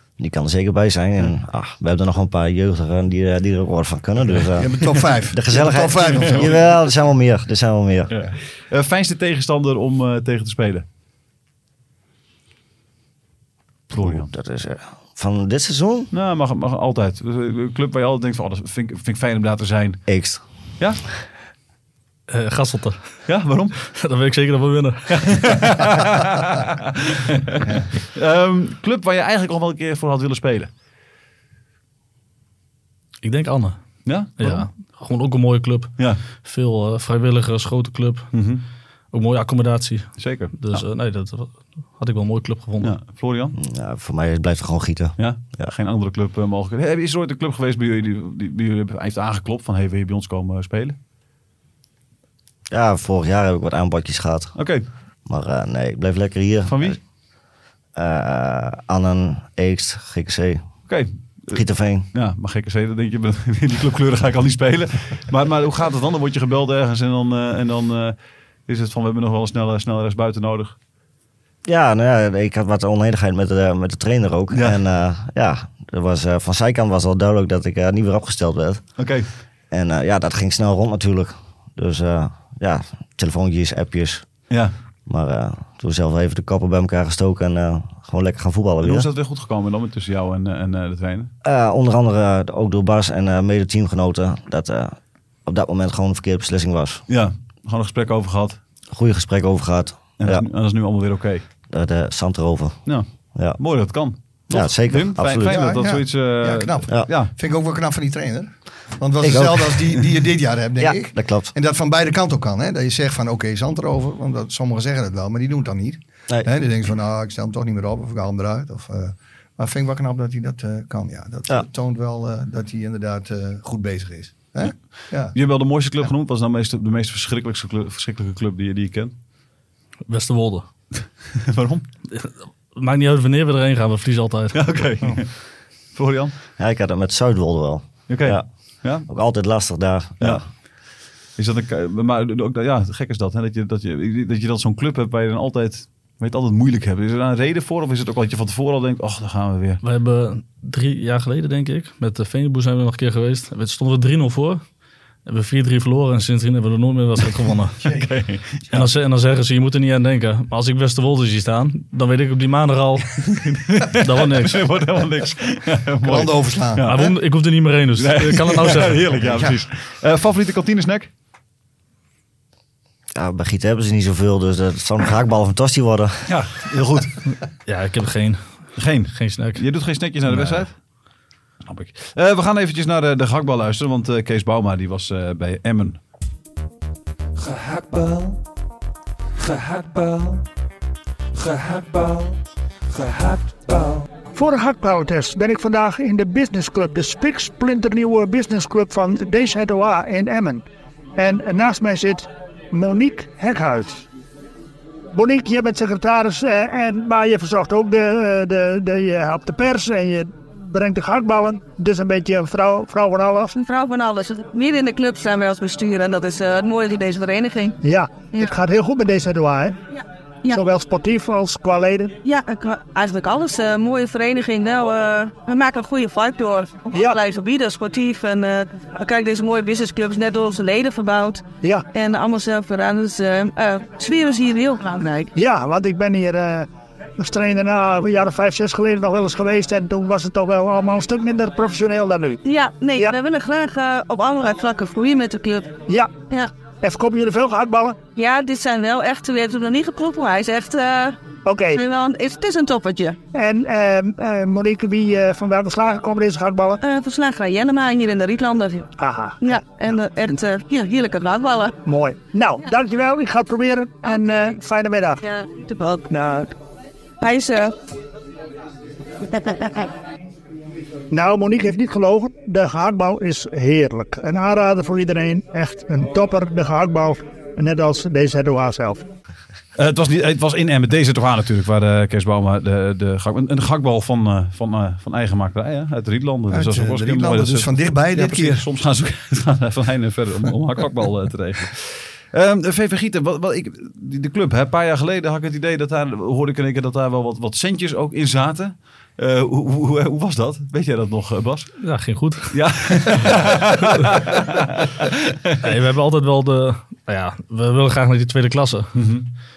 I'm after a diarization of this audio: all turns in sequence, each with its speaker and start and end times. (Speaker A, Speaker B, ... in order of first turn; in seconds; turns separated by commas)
Speaker A: 0.2-8.1, Speaker B: 4.6-6.6, Speaker C: 6.2-6.5, Speaker C: 8.1-10.9, Speaker C: 13.9-14.3, Speaker A: 13.9-16.1, Speaker C: 16.1-20.0, Speaker A: 20.1-20.4, Speaker D: 22.3-23.0, Speaker C: 23.3-23.8, Speaker D: 23.9-25.7, Speaker C: 25.1-30.7, Speaker D: 33.2-33.8, Speaker C: 34.0-34.7, Speaker D: 34.4-38.3, Speaker C: 38.3-38.6, Speaker D: 39.1-42.9, Speaker C: 40.2-40.8, Speaker C: 42.8-43.6, Speaker A: 43.6-45.7, Speaker C: 45.2-51.0, Speaker A: 52.7-54.6, Speaker C: 54.6-54.9, Speaker A: 55.3-57.0, Speaker C: 56.7-57.0, Speaker A: 58.0-60.6, Speaker C: 60.9-61.6, Speaker A: 61.5-62.1, Speaker C: 62.1-68.2, Speaker C: 68.7-70.8, Speaker A: 71.7-78.8, Speaker C: 74.5-74.8, Speaker C: 79.0-79.3, Speaker A: 79.7-84.3, Speaker A: 85.1-89.1, Speaker C: 88.8-91.3, Speaker A: 91.4-97.0, Speaker C: 97.1-98.6, Speaker A: 98.9-100.5, Speaker C: 100.2-101.4, Speaker A: 101.7-102.8, Speaker C: 102.9-107.3, Speaker A: 104.5-105.8, Speaker B: 105.5-125.3, Speaker A: 109.2-110.0, Speaker A: 110.8-111.5, Speaker C: 125.3-129.1, Speaker D: 130.1-130.7, Speaker C: 131.4-131.8, Speaker D: 132.1-134.6, Speaker C: 134.5-135.3, Speaker C: 135.9-136.3, Speaker A: 136.6-138.4, Speaker C: 138.1-139.1, Speaker A: 139.1-140.4, Speaker C: 141.4-149.8, Speaker D: 149.8-154.6, Speaker D: 155.3-157.9, Speaker C: 157.8-158.9, Speaker D: 158.7-163.2, Speaker C: 163.2-167.1, Speaker D: 163.9-164.7, Speaker B: 166.0-167.1, Speaker D: 166.8-169.2, Speaker C: 168.0-171.1, Speaker B: 169.2-169.6, Speaker A: 173.2-176.3, Speaker C: 176.3-177.2, Speaker D: 177.7-178.4, Speaker C: 178.8-180.8, Speaker D: 179.1-179.6, Speaker C: 181.7-186.0, Speaker C: 187.4-188.4, Speaker C: 189.4-190.4, Speaker C: 191.3-192.4, Speaker C: 192.9-194.1, Speaker E: 194.3-204.1, Speaker E: 205.1-213.5, Speaker F: 213.5-217.8, Speaker E: 217.8-219.8, Speaker F: 219.9-220.6, Speaker E: 220.5-222.2, Speaker F: 222.2-235.3, Speaker E: 226.9-227.2, Speaker E: 235.4-242.4, Speaker F: 242.4-245.8, Speaker E: 245.9-246.1, Speaker E: 246.8-248.0, Speaker F: 248.2-251.2, Speaker E: 251.4-251.8, Speaker F: 251.7-253.2, Speaker E: 253.3-256.8, Speaker F: 256.8-258.9, Speaker E: 259.0-259.6, Speaker F: 259.4-261.8, Speaker E: 261.9-265.2, Speaker F: 265.2-266.1, Speaker E: 266.1-266.5, Speaker F: 267.2-267.8, Speaker F: 269.3-269.9, Speaker E: 271.1-279.0, Speaker C: 279.8-301.8, Speaker B: 286.5-288.6, Speaker D: 301.8-302.6, Speaker C: 302.5-305.6, Speaker D: 303.8-304.1, Speaker D: 305.6-309.0, Speaker C: 308.9-309.3